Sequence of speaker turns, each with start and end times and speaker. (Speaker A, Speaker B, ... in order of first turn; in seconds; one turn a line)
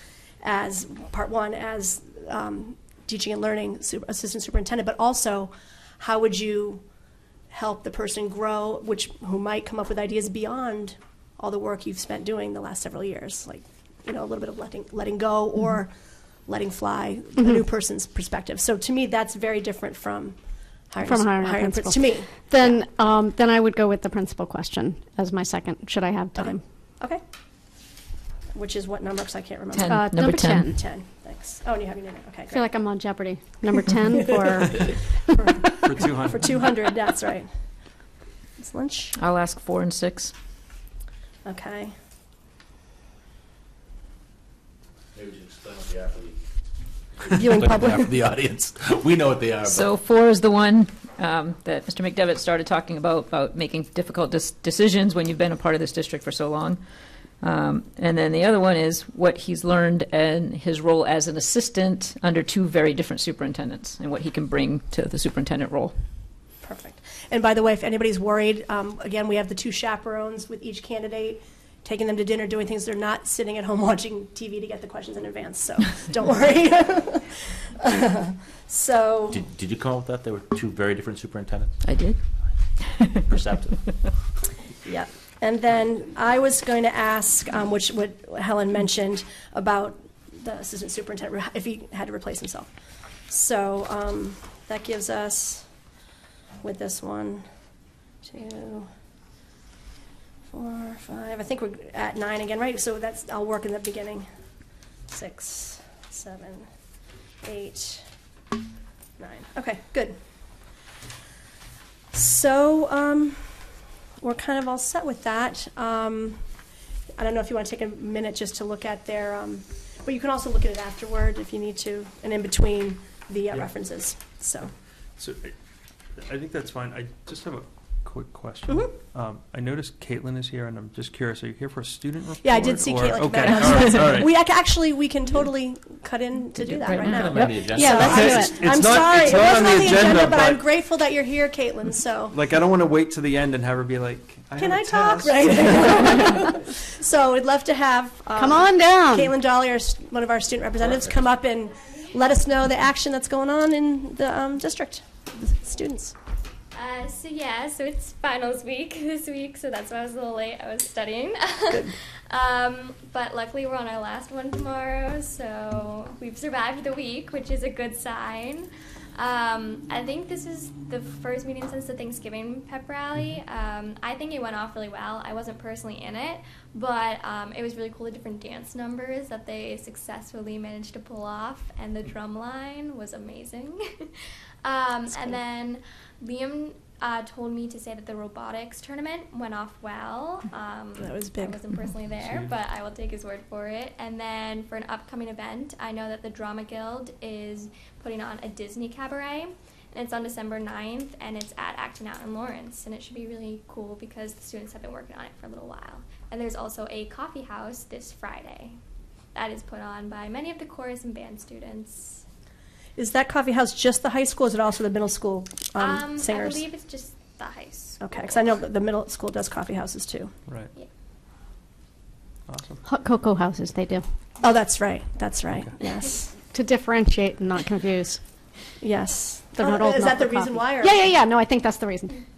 Speaker A: 0.4-6.8
Speaker A: 7.5-15.9
Speaker A: 16.4-20.4
Speaker A: 20.9-22.7
Speaker B: 21.0-26.6
Speaker A: 26.4-27.2
Speaker A: 28.5-30.0
Speaker C: 29.7-30.8
Speaker B: 29.9-30.8
Speaker A: 30.6-32.6
Speaker B: 32.5-35.5
Speaker A: 35.3-37.5
Speaker D: 35.8-36.5
Speaker A: 38.6-39.1
Speaker C: 39.1-40.3
Speaker A: 41.4-41.9
Speaker E: 45.1-46.4
Speaker E: 47.2-49.9
Speaker A: 47.4-48.0
Speaker C: 49.6-65.9
Speaker A: 66.6-79.4
Speaker E: 79.3-81.8
Speaker C: 81.8-82.2
Speaker C: 82.8-83.2
Speaker E: 83.3-83.8
Speaker A: 84.8-92.7
Speaker A: 93.3-95.6
Speaker A: 96.6-97.4
Speaker A: 98.2-98.9
Speaker A: 100.5-104.3
Speaker A: 105.1-106.7
Speaker A: 107.4-108.0
Speaker A: 109.2-110.2
Speaker A: 112.1-113.5
Speaker A: 114.2-116.4
Speaker A: 117.2-124.7
Speaker D: 125.2-125.5
Speaker D: 126.2-134.3
Speaker A: 128.7-128.9
Speaker A: 132.4-142.4
Speaker C: 136.6-137.7
Speaker E: 137.0-138.1
Speaker B: 137.4-138.6
Speaker D: 138.1-140.6
Speaker D: 142.3-146.2
Speaker A: 144.6-156.1
Speaker B: 148.4-149.3
Speaker F: 156.7-208.8
Speaker A: 191.0-191.6
Speaker D: 192.1-192.5
Speaker F: 209.3-212.2
Speaker A: 213.0-216.6
Speaker F: 215.8-218.4
Speaker A: 218.0-220.3
Speaker D: 222.5-222.8
Speaker B: 222.8-224.0
Speaker A: 224.4-226.3
Speaker B: 226.5-228.2
Speaker A: 228.8-231.0
Speaker B: 229.6-232.2